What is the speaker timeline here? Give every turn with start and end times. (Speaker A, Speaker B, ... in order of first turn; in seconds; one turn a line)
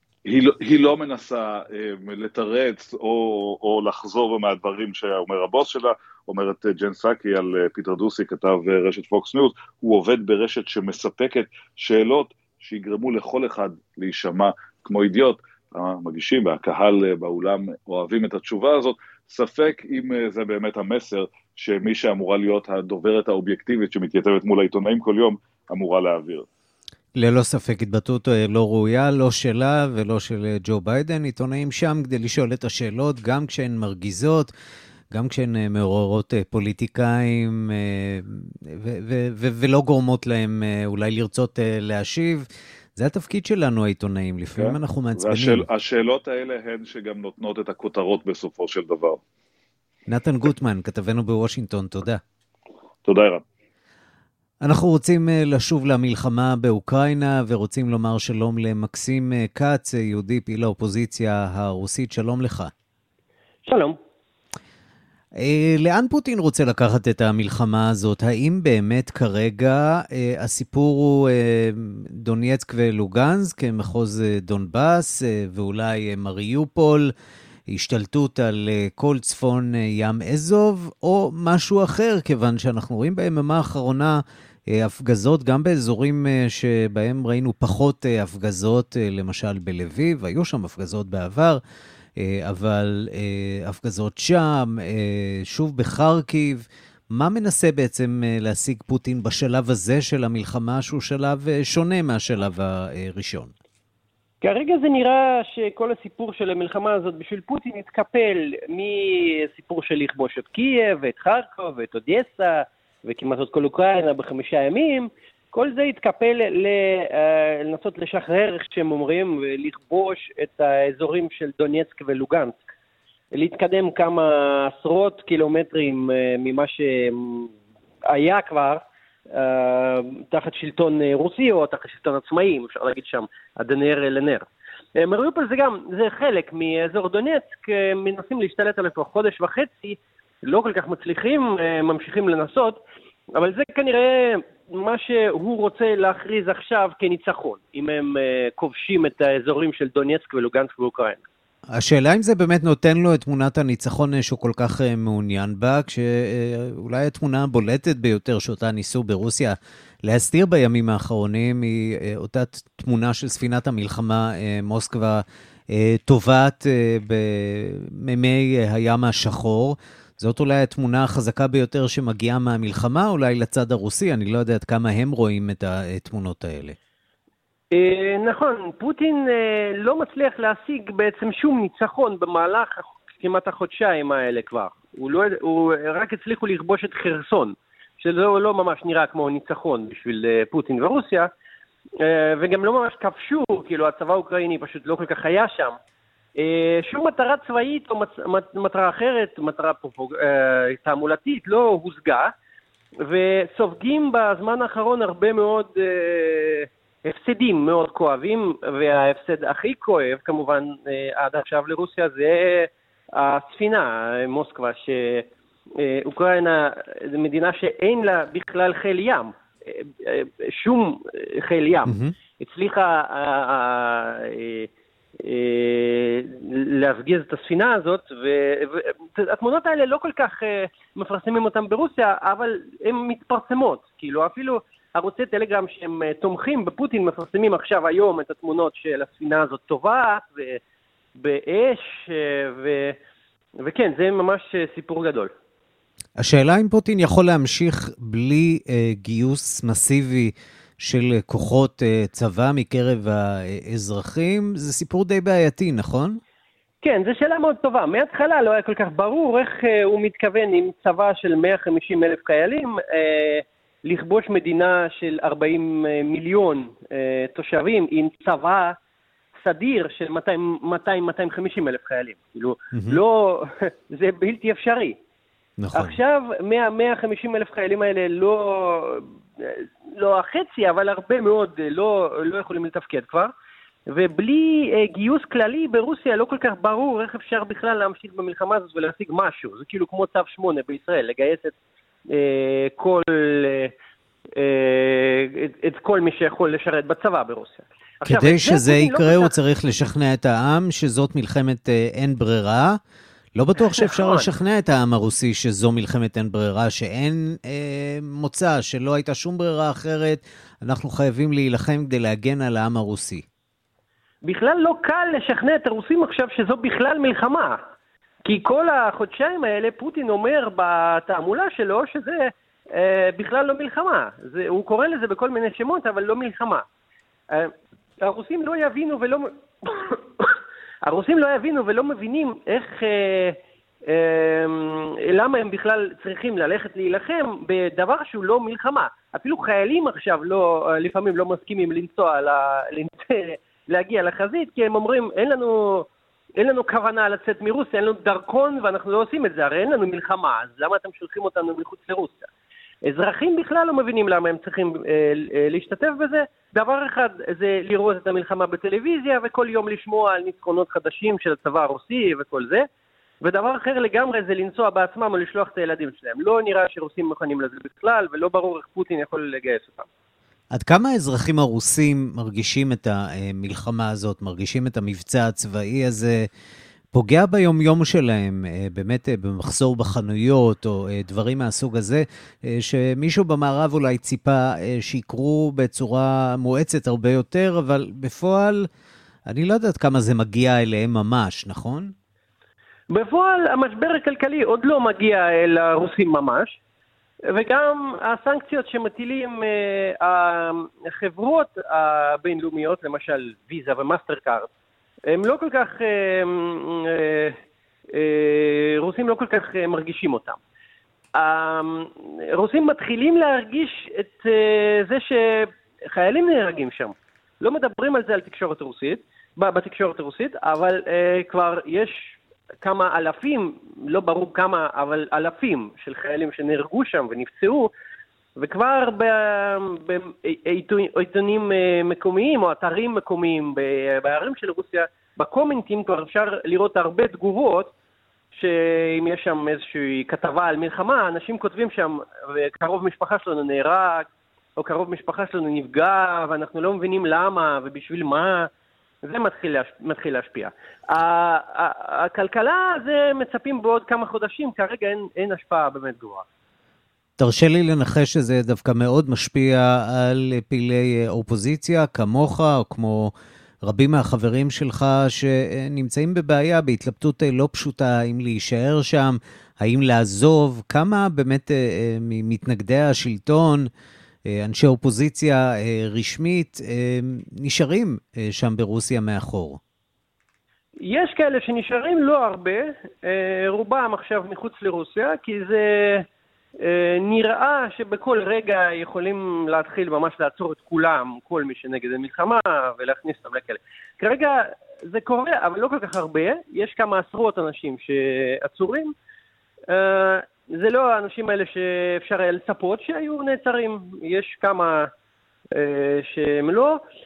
Speaker A: 0.2-26.5
Speaker B: 27.1-34.5
Speaker B: 35.1-45.6
Speaker A: 44.5-49.2
Speaker B: 50.1-52.2
Speaker A: 53.0-53.4
Speaker B: 54.6-62.7
Speaker C: 63.6-64.0
Speaker B: 65.4-77.1
Speaker B: 77.7-91.6
Speaker B: 92.2-103.5
Speaker C: 104.4-122.6
Speaker C: 123.3-127.5
Speaker C: 128.1-142.8
Speaker C: 143.3-151.2
Speaker B: 151.7-176.8
Speaker C: 177.7-191.3
Speaker C: 192.0-195.8
Speaker C: 196.3-202.3
Speaker C: 203.0-224.7
Speaker B: 221.9-222.1
Speaker C: 225.2-240.6
Speaker C: 241.2-243.0
Speaker C: 243.6-245.3
Speaker B: 246.2-256.2
Speaker C: 256.8-268.8
Speaker C: 269.4-275.0
Speaker B: 272.7-273.0
Speaker B: 275.6-276.0
Speaker C: 275.7-283.3
Speaker C: 283.9-291.6
Speaker C: 292.1-293.7
Speaker C: 294.4-299.4
Speaker B: 298.0-302.8
Speaker B: 303.3-313.2
Speaker C: 303.6-304.3
Speaker C: 314.2-317.6
Speaker C: 318.2-326.6
Speaker C: 327.3-352.3
Speaker C: 352.8-362.6
Speaker C: 363.2-369.9
Speaker B: 370.5-376.3
Speaker B: 376.9-388.7
Speaker B: 389.3-391.9
Speaker C: 392.9-396.6
Speaker C: 397.3-404.5
Speaker C: 405.1-407.4
Speaker C: 407.9-410.4
Speaker C: 411.2-427.7
Speaker C: 428.4-437.7
Speaker C: 438.3-444.0
Speaker C: 444.6-448.5
Speaker C: 449.0-456.2
Speaker B: 457.2-473.7
Speaker B: 474.2-479.6
Speaker C: 480.8-486.0
Speaker C: 486.6-498.9
Speaker C: 499.7-504.9
Speaker C: 505.5-506.8